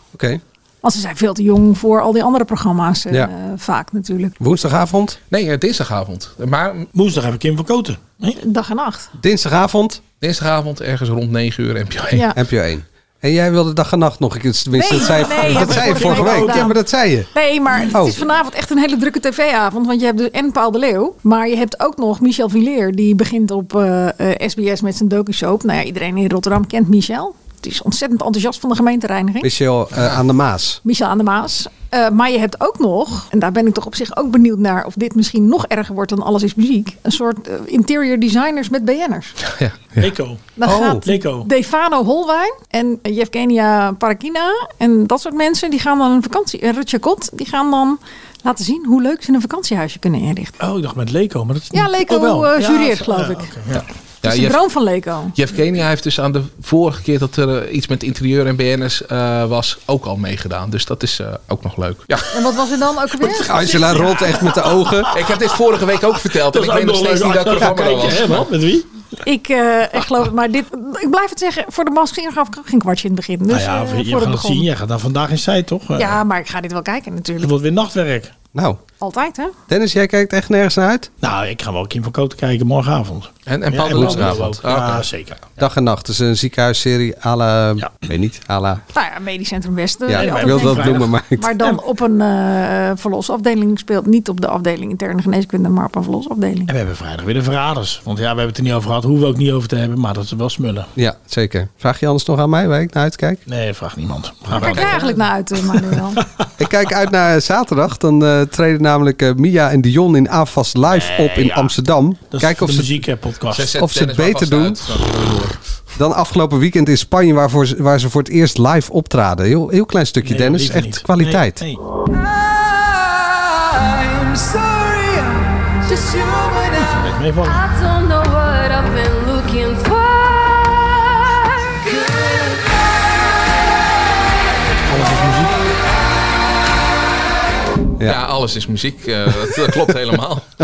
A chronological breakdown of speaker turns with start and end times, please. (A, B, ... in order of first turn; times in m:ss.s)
0:00.1-0:00.4 A
0:00.8-0:04.4 B
0:04.4-0:05.2 A
0:05.3-0:06.9 C
0:06.9-0:08.4 D
0:08.4-0:09.1 B
0:09.2-0:10.0 A
0:10.2-0:12.3 C
0:12.1-0:12.4 B
0:12.3-0:17.3 A
0:14.7-0:16.8 B
0:15.0-0:16.7 D
0:17.3-0:29.5 B
0:17.9-0:18.2 A
0:29.4-0:30.8 A
0:30.8-0:39.4 B
0:39.5-0:40.1 C
0:40.0-0:40.5 D
0:40.6-0:50.6 B
0:40.6-0:41.0 A
0:41.0-0:41.5 D
0:50.6-0:53.9 D
0:51.7-0:53.5 B
0:54.2-0:54.6 C
0:54.2-0:55.3 B
0:55.3-1:02.3 C
1:02.3-1:04.0 B
1:03.3-1:05.1 A
1:03.6-1:05.1 D
1:05.1-1:08.5 C
1:06.4-1:08.9 D
1:09.2-1:14.7 B
1:13.5-1:16.2 D
1:16.0-1:17.5 B
1:17.4-1:18.3 D
1:18.5-1:18.8 A
1:19.0-1:19.5 B
1:19.7-1:21.1 A
1:21.2-1:25.4 D
1:23.5-1:25.1 C
1:23.9-1:24.5 A
1:25.6-1:28.8 A
1:28.9-1:36.7 B
1:30.1-1:31.5 A
1:30.1-1:31.8 D
1:36.7-1:40.9 D
1:41.0-1:43.4 A
1:43.5-1:45.9 D
1:44.5-1:46.2 B
1:44.7-1:45.0 C
1:46.6-1:53.0 A
1:50.9-1:51.7 D
1:52.3-1:53.8 D
1:53.5-1:55.6 C
1:53.8-1:54.8 A
1:56.0-2:01.6 A
2:00.2-2:01.8 D
2:02.4-2:12.8 E
2:06.8-2:07.6 D
2:14.8-2:15.8 D
2:18.0-2:20.5 C